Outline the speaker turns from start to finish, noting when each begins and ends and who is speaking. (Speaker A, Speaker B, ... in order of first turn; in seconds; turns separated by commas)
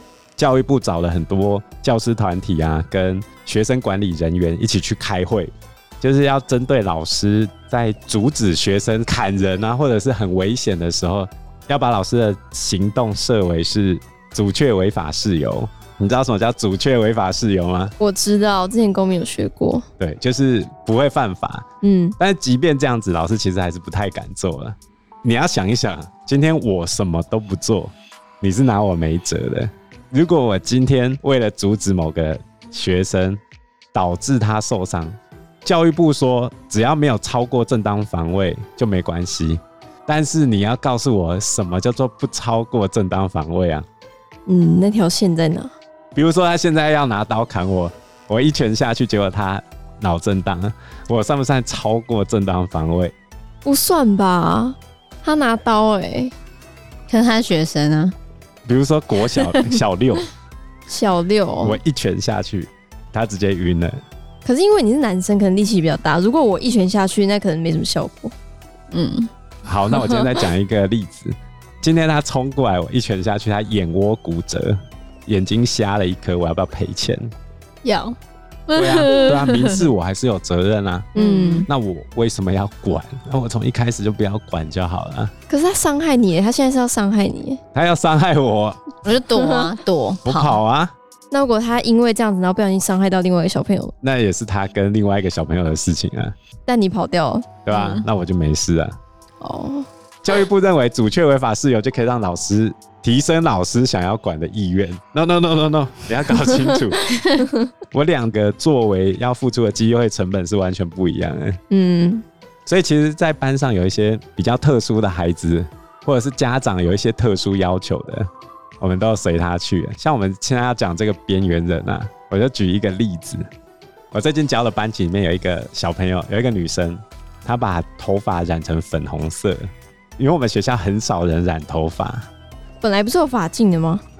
Speaker A: 0.4-17.9, Speaker B: 18.0-19.8, Speaker A: 20.0-21.6, Speaker B: 21.8-22.2, Speaker A: 22.2-33.4, Speaker A: 33.9-43.8, Speaker B: 44.5-45.7, Speaker A: 46.1-53.1, Speaker B: 53.6-56.3, Speaker C: 57.1-58.1, Speaker A: 58.6-60.3, Speaker B: 60.9-61.8, Speaker A: 61.6-64.0, Speaker B: 64.4-68.3, Speaker C: 68.9-69.3, Speaker A: 69.6-77.3, Speaker C: 77.8-79.9, Speaker A: 78.7-81.1, Speaker B: 81.1-81.7, Speaker C: 81.2-81.7, Speaker A: 81.7-85.3, Speaker B: 85.5-87.6, Speaker A: 87.7-89.0, Speaker C: 89.0-90.6, Speaker B: 89.4-89.7, Speaker A: 90.2-90.9, Speaker B: 91.3-93.9, Speaker A: 94.0-96.3, Speaker B: 96.7-97.5, Speaker A: 97.6-99.0, Speaker C: 97.7-98.0, Speaker B: 99.4-99.9, Speaker A: 100.2-107.0, Speaker A: 107.9-111.6, Speaker B: 111.7-112.2, Speaker A: 112.7-118.3, Speaker A: 118.8-123.5, Speaker A: 124.1-132.3, Speaker B: 132.8-134.0